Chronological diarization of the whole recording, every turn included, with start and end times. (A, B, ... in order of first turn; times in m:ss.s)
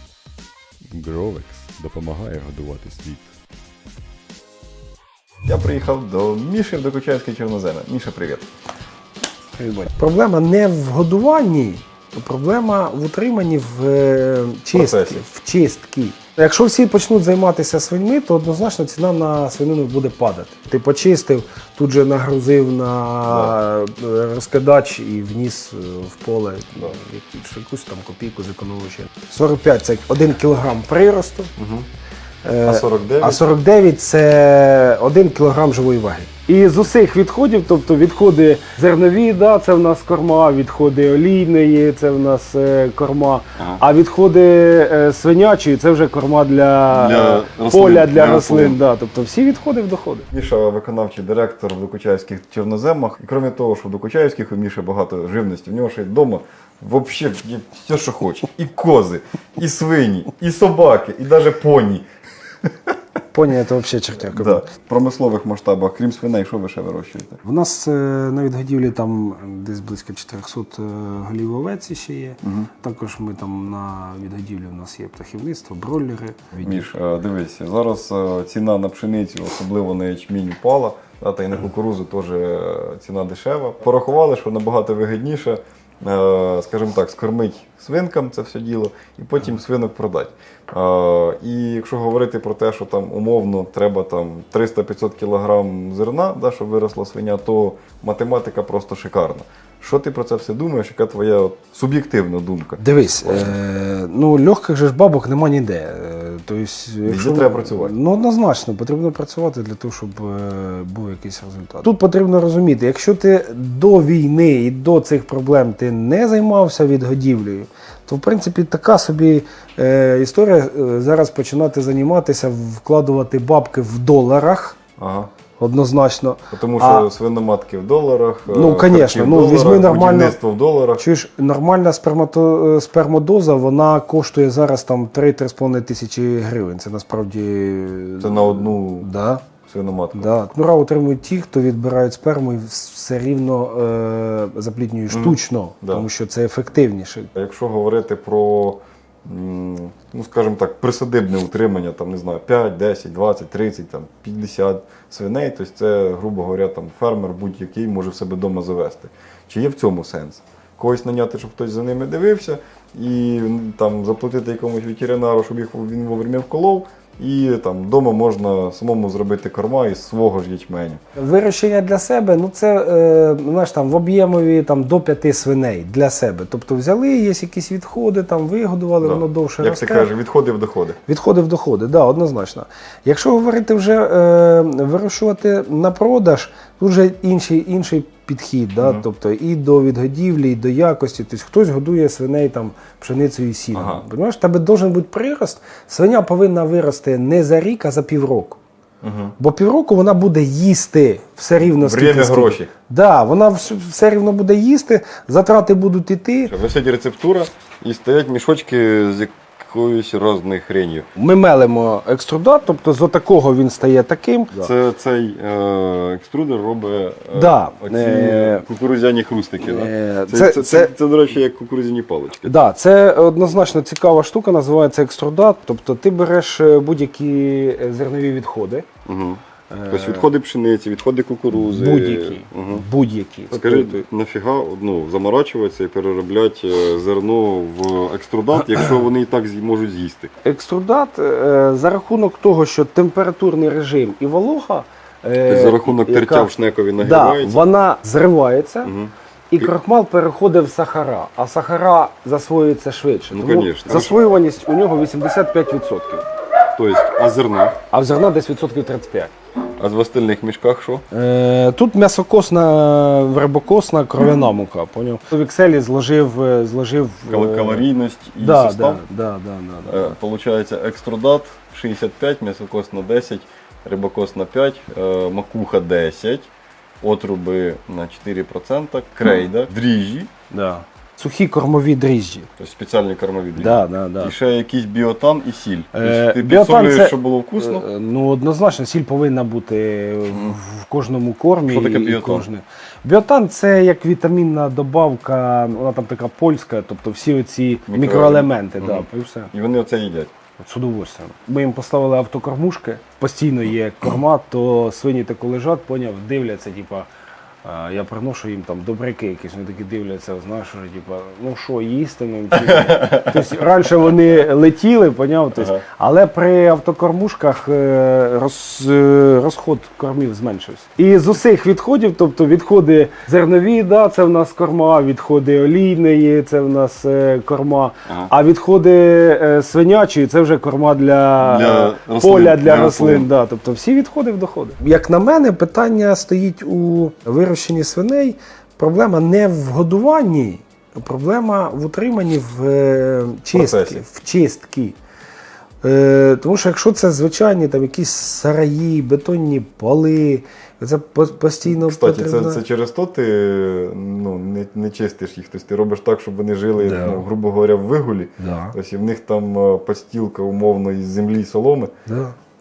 0:00.9-0:03.3 A
0:05.4-0:08.5 A
0:09.6-0:31.5 B
0:14.7-0:15.2 A
0:23.3-0:23.6 A
0:31.6-0:31.9 A
0:32.4-0:50.3 B
0:32.6-0:33.4 A
0:46.9-0:48.8 A
0:50.3-1:02.0 A
1:03.3-1:04.6 B
1:04.3-1:07.4 A
1:07.4-1:16.9 B
1:12.4-1:12.7 A
1:16.6-1:43.6 A
1:42.8-2:04.8 B
1:47.0-1:48.0 A
2:05.0-2:05.3 A
2:05.6-2:07.1 B
2:06.5-2:11.0 A
2:08.5-2:10.4 B
2:11.0-2:19.4 B
2:18.2-2:19.1 A
2:19.6-2:20.3 A
2:20.1-2:27.3 B
2:25.1-2:26.1 A
2:27.4-2:51.0 A
2:51.2-3:00.1 B
2:59.0-3:01.0 A
3:01.1-3:18.6 B
3:13.7-3:14.0 A
3:19.0-3:19.4 A
3:19.4-3:26.5 B
3:21.6-3:22.7 A
3:26.5-3:31.1 A
3:31.2-3:34.7 B
3:34.6-3:42.6 A
3:37.3-3:38.6 B
3:39.6-3:40.9 B
3:42.4-3:48.9 B
3:49.0-3:52.8 A
3:49.7-3:50.3 B
3:51.5-3:54.0 B
3:53.5-4:00.3 A
4:00.4-4:08.9 B
4:05.5-4:07.6 A
4:08.8-4:09.7 A
4:09.5-4:16.3 B
4:13.3-4:14.2 A
4:16.7-4:17.8 A
4:17.9-4:19.3 B
4:19.8-4:21.1 A
4:21.1-4:30.2 B
4:27.3-4:29.0 A
4:29.9-4:36.5 A
4:37.0-4:40.3 A
4:40.5-4:42.5 B
4:42.6-4:47.8 A
4:43.6-4:44.4 B
4:46.0-4:59.5 B
4:51.6-4:52.5 A
4:57.9-5:00.3 A
5:00.6-5:07.1 B
5:07.6-5:45.0 B
5:12.5-5:13.6 A
5:15.6-5:15.8 A
5:31.4-5:33.3 A
5:43.5-5:44.0 A
5:45.8-5:52.6 B
5:51.6-6:01.9 A
5:56.8-5:57.2 B
5:58.4-5:58.8 B
6:02.1-6:02.4 B